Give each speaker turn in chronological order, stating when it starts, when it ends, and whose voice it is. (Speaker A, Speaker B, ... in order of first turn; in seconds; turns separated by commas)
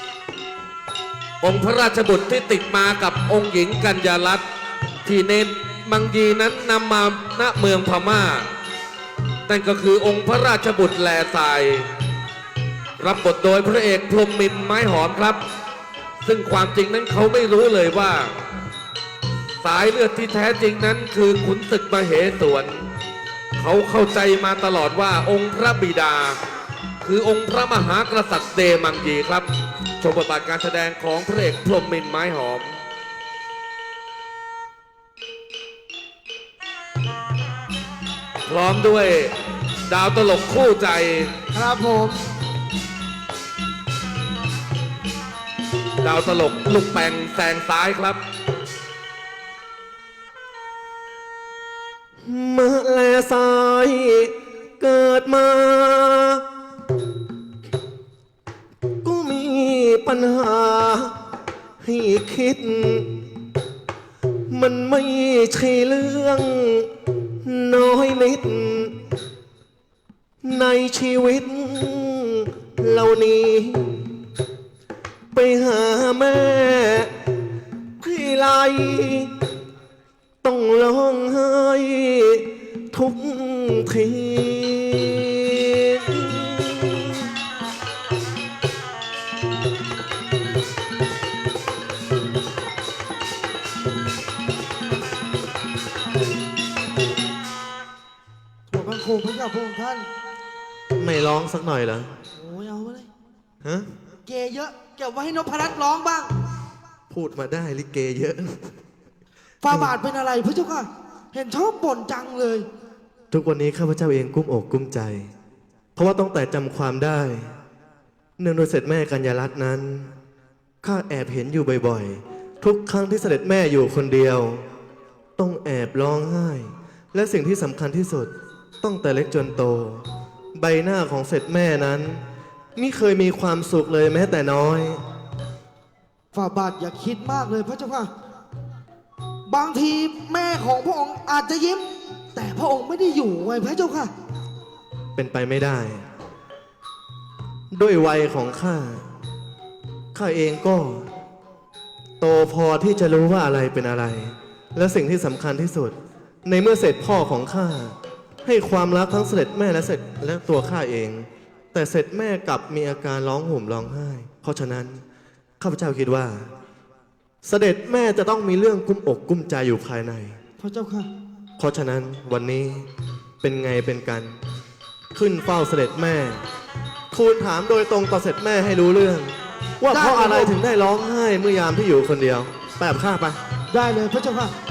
Speaker A: 1.4-4.4, Speaker A: 5.0-8.5, Speaker A: 9.5-11.9, Speaker A: 13.0-15.4, Speaker A: 16.2-18.3, Speaker A: 19.6-22.9, Speaker A: 23.6-26.4, Speaker A: 27.0-29.5, Speaker A: 30.0-32.8, Speaker A: 38.5-39.3, Speaker A: 39.9-41.3, Speaker B: 41.5-42.3, Speaker A: 46.0-48.2, Speaker C: 52.2-56.4, Speaker C: 59.0-61.1, Speaker C: 61.8-63.2, Speaker C: 64.5-66.9, Speaker C: 67.4-69.0, Speaker C: 70.4-74.1, Speaker C: 75.3-77.1, Speaker C: 78.0-79.3, Speaker C: 80.4-87.2, Speaker B: 98.7-100.1, Speaker C: 101.0-102.1, Speaker B: 102.4-103.1, Speaker C: 103.6-103.9, Speaker B: 104.3-106.3, Speaker C: 107.1-108.7, Speaker B: 109.6-112.7, Speaker C: 109.7-109.9, Speaker C: 113.3-115.3, Speaker C: 116.0-117.5, Speaker C: 118.4-120.1, Speaker C: 120.8-124.6, Speaker C: 125.4-128.3, Speaker C: 128.8-130.1, Speaker C: 130.6-132.2, Speaker C: 132.8-135.0, Speaker B: 136.3-138.1, Speaker B: 139.5-141.8, Speaker B: 142.3-144.1, Speaker C: 145.2-146.0, Speaker C: 147.7-149.0, Speaker C: 150.1-151.1, Speaker C: 152.2-165.0, Speaker C: 165.6-166.5, Speaker C: 167.4-170.4, Speaker B: 170.6-171.1, Speaker C: 171.6-172.9, Speaker C: 173.4-174.4, Speaker C: 175.1-176.4, Speaker C: 177.1-183.4, Speaker B: 179.9-180.6, Speaker B: 183.7-184.5